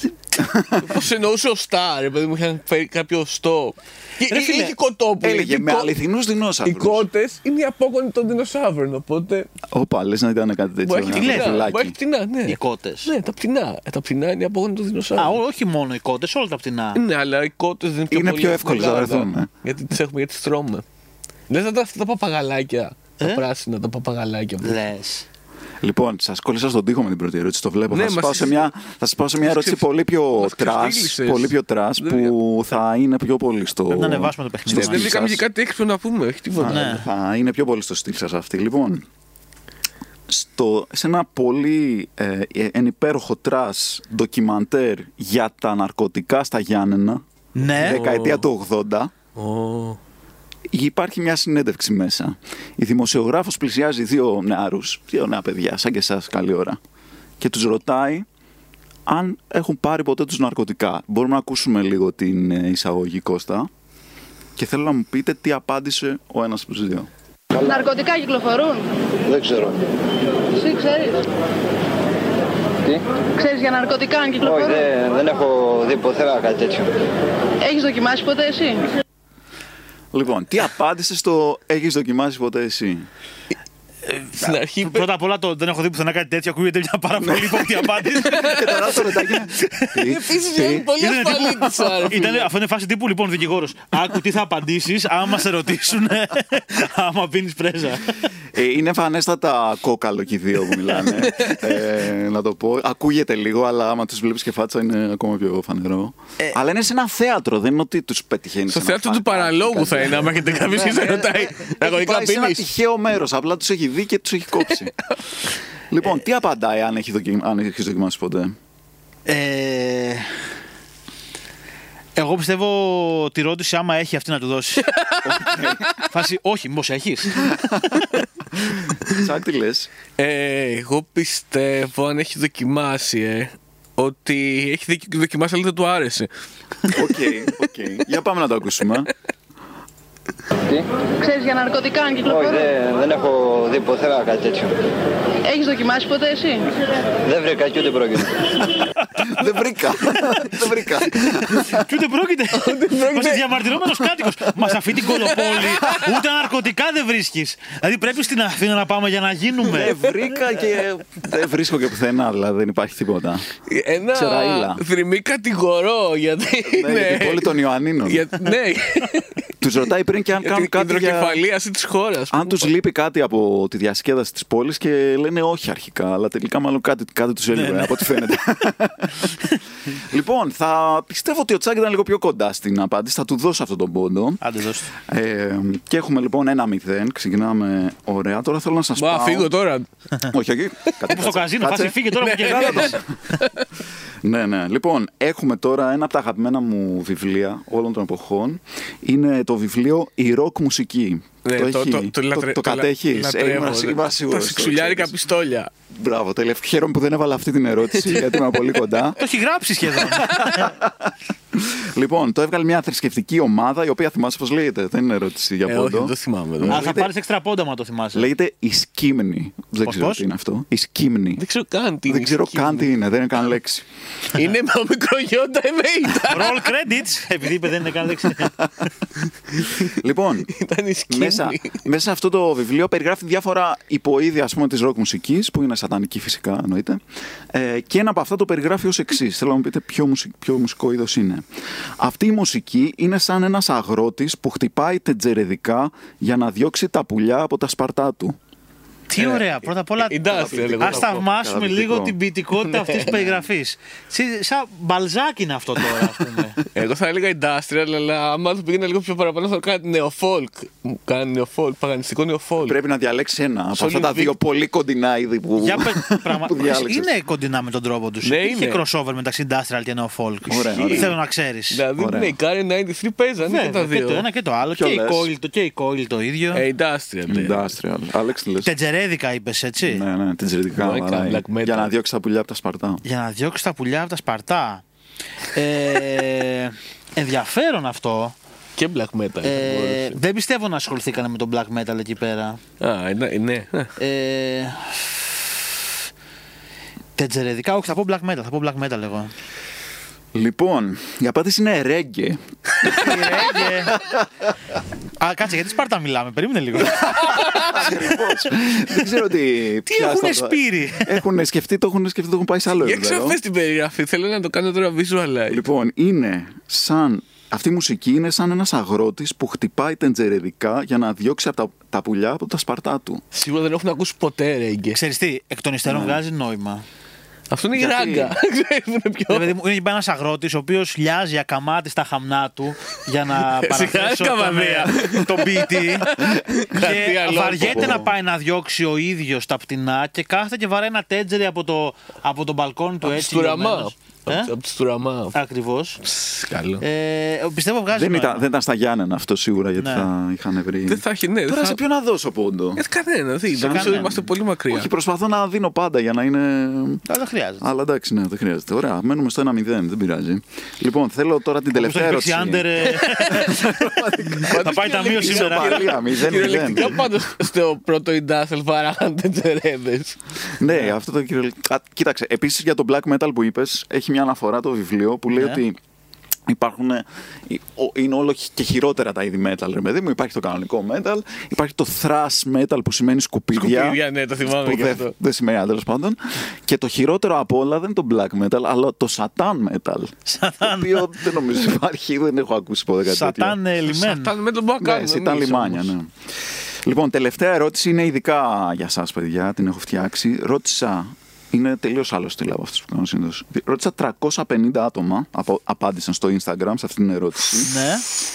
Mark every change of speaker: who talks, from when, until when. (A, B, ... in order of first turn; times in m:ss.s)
0:00.4-0:00.9 A
0:00.8-0:05.9 B
0:04.3-0:04.7 C
0:05.2-0:07.1 A
0:06.6-0:09.5 B
0:09.7-0:11.9 A
0:10.8-0:15.4 B
0:11.1-0:11.7 C
0:12.4-0:13.1 C
0:15.2-0:17.0 C
0:16.9-0:20.8 B
0:18.1-0:19.5 A
0:21.5-0:24.8 B
0:24.6-0:25.2 C
0:25.8-0:35.4 A
0:27.9-0:28.7 B
0:29.4-0:29.8 B
0:30.4-0:32.3 B
0:33.9-0:35.1 C
0:34.7-0:37.0 B
0:36.6-0:39.0 A
0:36.7-0:37.0 C
0:40.3-0:47.2 A
0:47.6-0:48.0 C
0:47.7-0:49.1 A
0:47.8-0:48.5 B
0:49.3-0:50.0 B
0:50.7-0:56.8 A
0:57.4-0:58.2 A
0:59.1-1:03.7 A
1:04.6-1:07.1 A
1:07.5-1:07.9 D
1:07.6-1:08.8 E
1:09.3-1:09.9 D
1:10.6-1:11.2 E
1:13.4-1:14.8 E
1:14.4-1:16.9 D
1:17.6-1:18.9 E
1:20.1-1:23.1 A
1:24.1-1:29.0 C
1:24.4-1:25.1 B
1:27.2-1:30.9 A
1:28.2-1:28.8 B
1:29.5-1:30.0 C
1:30.0-1:32.5 B
1:31.0-1:38.3 C
1:38.5-1:54.9 A
1:41.2-1:41.6 B
1:48.7-1:52.7 B
1:55.9-1:58.5 A
1:59.2-2:00.3 C
2:02.2-2:04.9 C
2:04.9-2:05.6 B
2:05.2-2:05.9 A
2:06.0-2:08.0 C
2:07.4-2:07.9 A
2:08.6-2:09.9 A
2:10.2-2:16.3 B
2:16.9-2:19.1 A
2:20.6-2:21.0 D
2:21.2-2:22.7 E
2:22.2-2:24.7 D
2:25.4-2:26.7 E
2:27.2-2:28.6 D
2:29.2-2:31.8 A
2:31.5-2:40.0 C
2:32.5-2:34.0 B
2:35.0-2:36.2 B
2:39.6-2:43.4 A
2:43.7-2:49.5 B
2:44.1-2:44.8 A
2:46.6-2:48.3 A
2:49.6-2:51.4 A
2:50.4-2:52.7 B
2:52.3-2:59.4 A
2:57.5-2:58.0 C
2:59.9-3:04.4 A
3:04.4-3:04.9 C
3:04.9-3:09.5 A
3:09.0-3:09.9 B
3:10.3-3:13.0 A
3:11.1-3:13.4 C
3:12.2-3:13.6 B
3:14.2-3:25.1 A
3:21.4-3:25.7 B
3:25.9-3:29.2 A
3:27.9-3:28.8 B
3:29.2-3:30.7 C
3:30.0-3:37.1 A
3:30.2-3:30.6 B
3:35.6-3:36.9 B
3:36.7-3:38.3 C
3:38.1-3:41.4 A
3:39.8-3:40.2 C
3:41.4-3:42.9 B
3:42.1-3:43.8 A
3:44.3-3:46.7 B
3:46.3-3:48.6 C
3:49.6-3:49.9 B
3:49.9-3:50.5 A
3:50.5-3:51.8 B
3:51.1-4:01.4 A
4:02.0-4:08.4 A
4:09.1-4:16.6 C
4:09.2-4:11.2 B
4:10.3-4:12.1 A
4:12.6-4:13.2 B
4:13.1-4:13.4 A
4:16.6-4:22.8 B
4:22.6-4:27.1 A
4:23.7-4:24.3 B
4:25.6-4:31.8 C
4:28.2-4:28.8 B
4:30.5-4:31.2 A
4:30.7-4:31.1 B
4:31.7-4:34.2 B
4:32.0-4:32.4 A
4:33.4-4:36.6 C
4:34.7-4:35.3 A
4:36.5-4:37.7 B
4:37.3-4:38.7 A
4:38.6-4:40.0 C
4:39.8-4:43.0 A
4:40.7-4:41.9 B
4:43.0-4:44.8 C
4:45.5-4:48.3 C
4:48.8-4:50.2 B
4:49.4-4:52.6 C
4:52.8-4:53.9 B
4:54.0-4:55.5 C
4:57.2-4:59.3 C
5:00.3-5:04.5 A
5:02.8-5:03.1 B
5:02.9-5:04.0 C
5:05.2-5:08.2 C
5:07.0-5:07.8 B
5:07.5-5:13.4 A
5:09.8-5:11.2 C
5:12.8-5:15.6 B
5:15.5-5:23.2 A
5:23.3-5:25.0 B
5:24.9-5:26.8 C
5:25.8-5:26.2 A
5:27.5-5:29.5 B
5:27.8-5:28.3 A
5:29.3-5:36.2 C
5:33.4-5:38.1 B
5:36.7-5:44.5 C
5:37.6-5:38.1 A
5:43.0-5:45.3 B
5:45.3-5:46.0 C
5:46.0-5:46.8 B
5:46.8-5:48.4 C
5:47.9-5:52.8 A
5:49.8-5:50.1 C
5:50.9-5:51.8 B
5:52.8-5:54.9 B
5:53.5-5:57.0 A
5:53.6-5:54.1 C
5:57.0-5:57.7 C
5:57.6-6:02.7 A
6:01.7-6:03.9 C
6:02.8-6:10.2 B
6:03.3-6:07.1 A
6:04.4-6:05.8 C
6:10.6-6:15.8 A
6:15.3-6:15.6 C
6:16.5-6:33.6 A
6:23.5-6:25.1 B
6:30.3-6:31.2 C
6:33.0-6:34.3 C
6:33.9-6:35.9 B
6:34.8-6:36.1 A
6:36.8-6:47.7 A
6:47.6-6:48.0 C